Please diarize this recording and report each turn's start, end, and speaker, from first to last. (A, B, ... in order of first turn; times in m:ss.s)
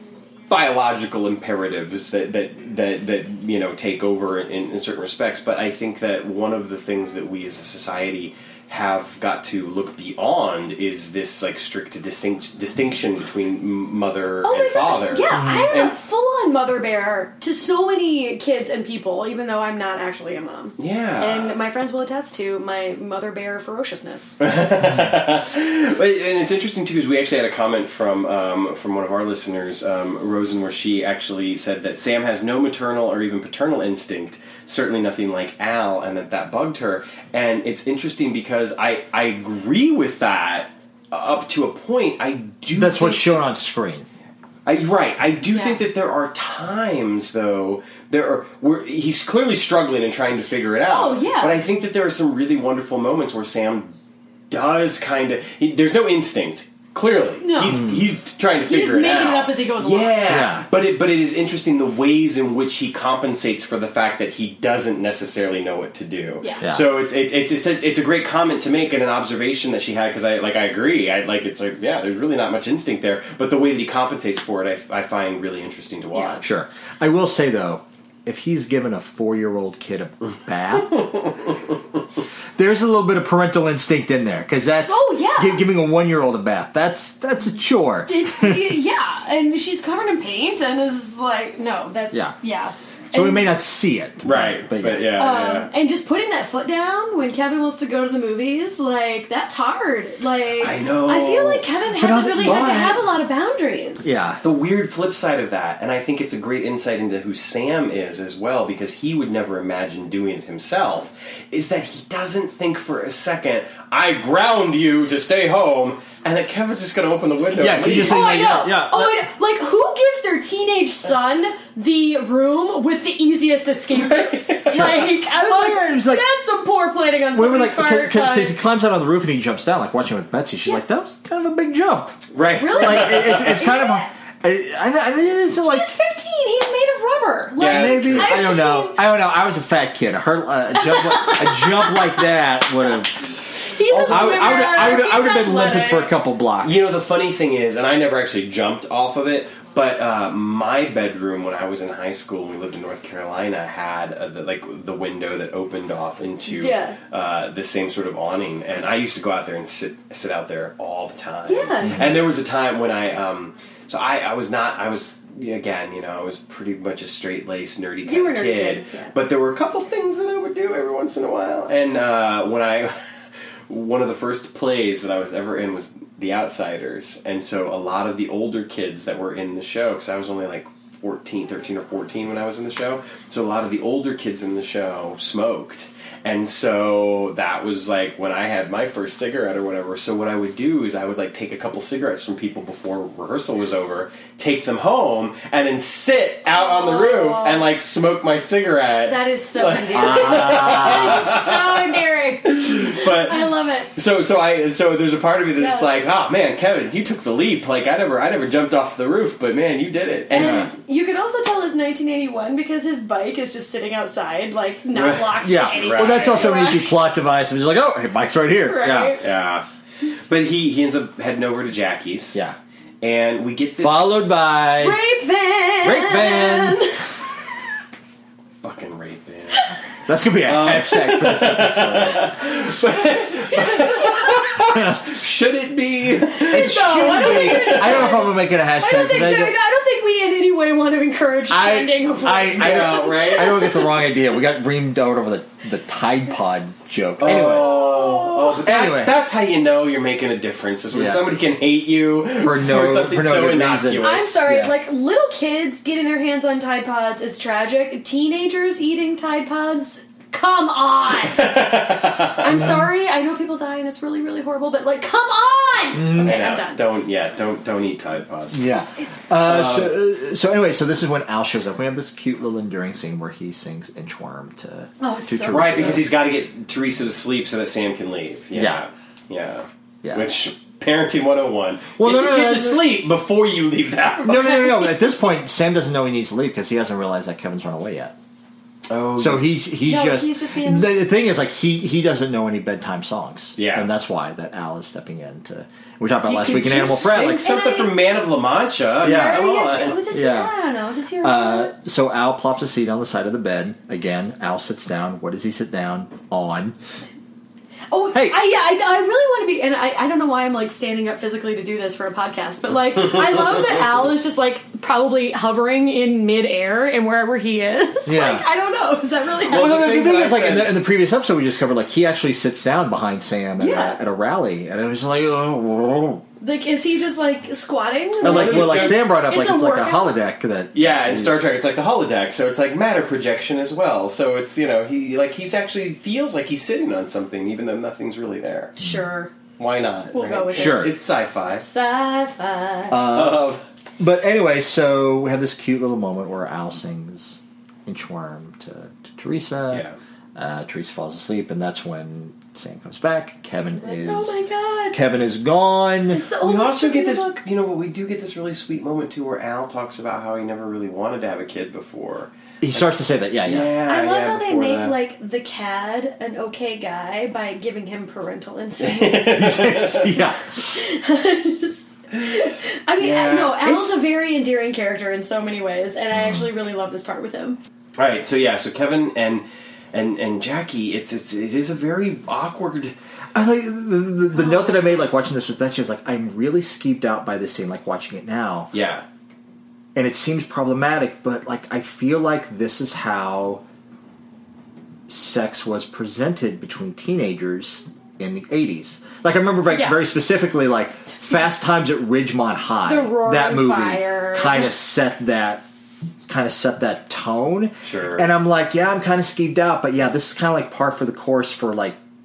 0:00.5-0:15.9 A
0:14.4-0:24.4 B
0:15.3-0:15.7 C
0:20.8-0:21.6 A
0:24.4-0:43.4 A
0:42.7-0:44.1 C
0:44.7-0:54.0 A
0:45.5-0:45.8 B
0:50.9-0:51.6 B
0:54.5-1:16.5 A
0:57.4-0:57.9 B
0:57.7-0:58.0 C
0:58.6-1:00.3 B
1:00.2-1:00.7 C
1:16.1-1:16.4 B
1:16.4-1:21.1 C
1:20.9-1:21.5 A
1:22.6-1:28.8 C
1:24.9-1:25.6 B
1:28.1-1:33.5 B
1:33.1-1:35.2 C
1:34.2-1:35.7 A
1:35.2-1:44.1 B
1:40.6-1:41.7 A
1:42.0-1:43.1 C
1:42.4-1:43.0 A
1:44.0-1:44.4 C
1:44.4-1:58.6 A
1:57.6-1:59.2 C
1:58.0-2:08.6 B
2:03.9-2:05.0 A
2:04.7-2:06.2 C
2:07.3-2:15.9 C
2:12.3-2:13.5 A
2:12.6-2:14.1 B
2:15.6-2:19.0 B
2:17.6-2:18.5 A
2:17.6-2:23.5 C
2:20.7-2:22.3 B
2:23.7-2:26.1 B
2:23.9-2:25.0 A
2:24.1-2:27.0 C
2:26.6-2:53.1 A
2:36.5-2:37.0 B
2:41.5-2:42.1 B
2:48.1-2:49.2 B
2:53.7-3:21.7 A
3:16.5-3:17.6 B
3:19.1-3:23.9 B
3:19.9-3:21.3 C
3:22.4-3:30.7 A
3:25.6-3:26.0 B
3:30.3-3:36.9 B
3:30.3-3:30.7 C
3:34.9-3:36.7 A
3:35.4-3:39.2 C
3:38.6-3:39.2 B
3:39.2-3:39.7 A
3:40.3-3:42.4 A
3:43.0-3:44.3 A
3:43.8-3:45.0 C
3:44.8-3:47.0 B
3:45.8-3:46.9 C
3:48.6-3:49.7 A
3:50.1-3:52.4 C
3:50.4-3:58.2 A
3:53.6-3:54.4 B
3:56.3-4:03.9 B
3:56.4-3:59.6 C
4:01.5-4:07.8 C
4:02.3-4:03.8 A
4:07.2-4:14.4 A
4:07.3-4:08.6 B
4:08.6-4:09.2 C
4:10.9-4:11.2 C
4:12.4-4:14.8 C
4:14.0-4:21.6 B
4:21.3-4:22.6 A
4:22.4-4:26.9 B
4:25.9-4:26.4 C
4:26.1-4:28.8 A
4:28.5-4:36.1 C
4:28.7-4:29.2 B
4:29.4-4:30.0 A
4:35.0-4:36.1 B
4:35.5-4:44.6 A
4:38.5-4:38.8 C
4:40.0-4:40.3 C
4:42.0-4:42.9 C
4:44.2-4:48.2 C
4:44.3-4:45.0 B
4:48.9-4:49.5 A
4:49.2-4:57.5 C
4:49.8-4:50.9 B
4:53.6-4:53.9 A
4:56.3-5:00.0 A
4:57.2-4:58.0 B
4:59.0-4:59.5 C
4:59.0-5:01.7 B
5:00.1-5:00.5 C
5:01.2-5:06.8 C
5:07.9-5:20.0 B
5:08.1-5:08.4 C
5:18.1-5:18.4 C
5:19.4-5:20.8 A
5:19.5-5:26.2 C
5:23.6-5:24.0 B
5:26.4-5:30.2 B
5:28.2-5:29.0 A
5:28.2-5:31.4 C
5:30.7-5:38.7 A
5:38.8-5:39.3 B
5:39.6-5:41.7 A
5:40.1-5:40.9 B
5:40.5-5:40.9 C
5:41.6-5:43.0 B
5:42.9-5:54.4 C
5:43.0-5:43.6 A
5:49.7-5:50.0 A
5:53.8-5:55.0 B
5:54.9-5:56.2 C
5:56.1-5:57.4 B
5:56.4-6:02.9 A
6:02.6-6:03.7 C
6:03.4-6:05.0 A
6:03.9-6:09.7 B
6:08.8-6:10.1 A
6:09.3-6:10.6 C
6:10.6-6:17.6 B
6:13.0-6:13.9 A
6:18.0-6:22.9 A
6:23.4-6:28.7 C
6:24.4-6:24.9 B
6:28.7-6:29.0 A
6:30.0-6:33.6 C
6:35.1-6:45.6 C
6:39.7-6:40.0 B
6:42.9-6:44.7 B
6:46.3-6:52.0 C
6:47.8-6:48.3 A